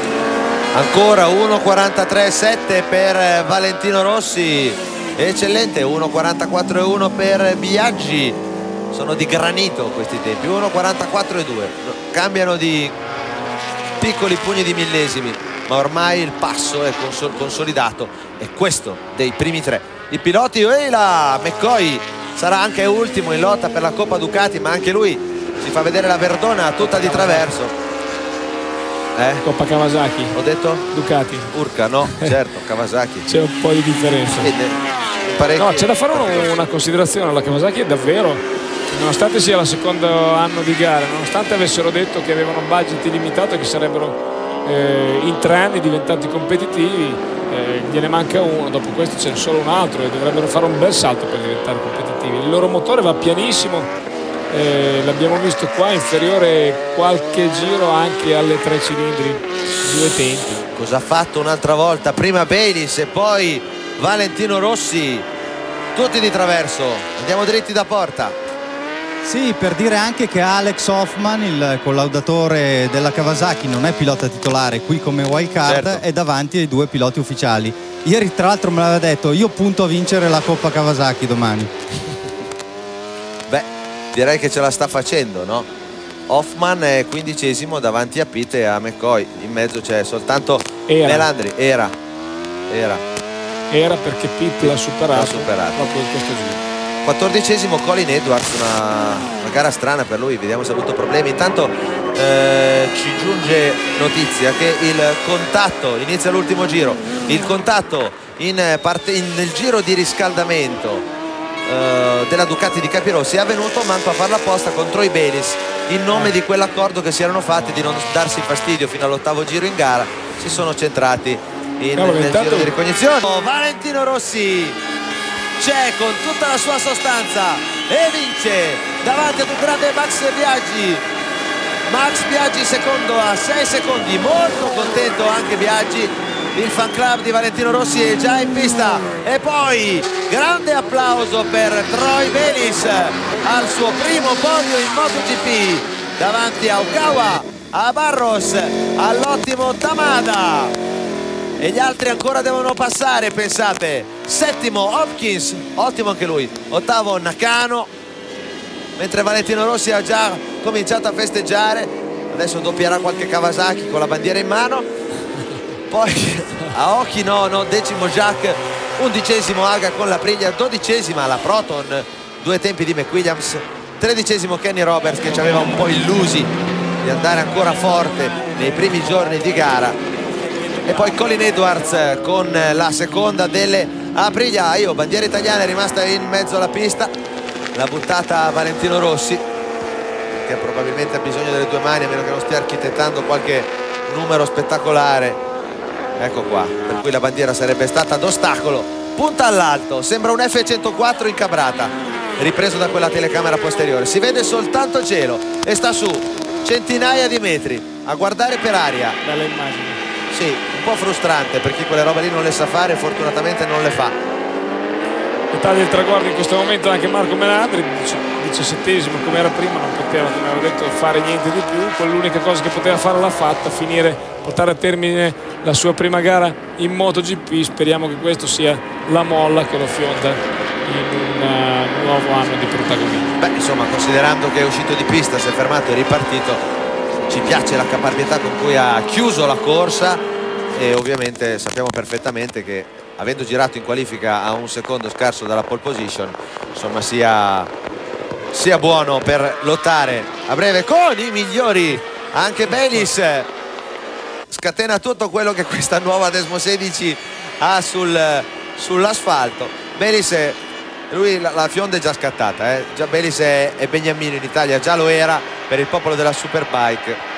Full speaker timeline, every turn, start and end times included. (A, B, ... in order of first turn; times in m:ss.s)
0:00.7-0:08.4 A
0:08.9-0:12.9 A
0:14.0-0:27.7 A
0:26.8-0:27.5 B
0:29.2-0:29.4 A
0:29.4-0:30.4 B
0:30.3-0:30.9 A
0:30.9-0:31.5 B
0:31.5-0:33.3 A
0:33.3-0:34.5 B
0:34.4-0:36.5 A
0:35.6-0:53.9 B
0:54.5-1:00.7 B
1:00.8-1:05.3 A
1:06.0-1:08.4 A
1:09.2-1:21.7 C
1:15.7-1:16.0 A
1:23.5-1:25.7 A
1:26.3-1:31.9 A
1:30.9-1:31.3 B
1:32.7-1:33.0 A
1:33.7-1:36.6 B
1:34.6-1:35.9 A
1:37.0-1:51.1 A
1:51.7-2:04.8 A
2:02.0-2:02.7 B
2:05.6-2:11.0 A
2:11.9-2:30.7 A
2:31.6-2:37.9 A
2:39.0-2:44.9 A
2:45.9-3:00.0 A
3:00.8-3:07.1 A
3:07.8-3:09.4 A
3:10.4-3:15.4 A
3:16.2-3:29.2 A
3:29.2-3:30.0 B
3:30.3-3:34.2 A
3:35.5-3:53.3 B
3:53.4-3:56.6 A
3:57.3-4:00.2 A
4:00.7-4:07.7 A
4:08.5-4:13.5 A
4:14.5-4:20.6 A
4:21.1-4:27.2 A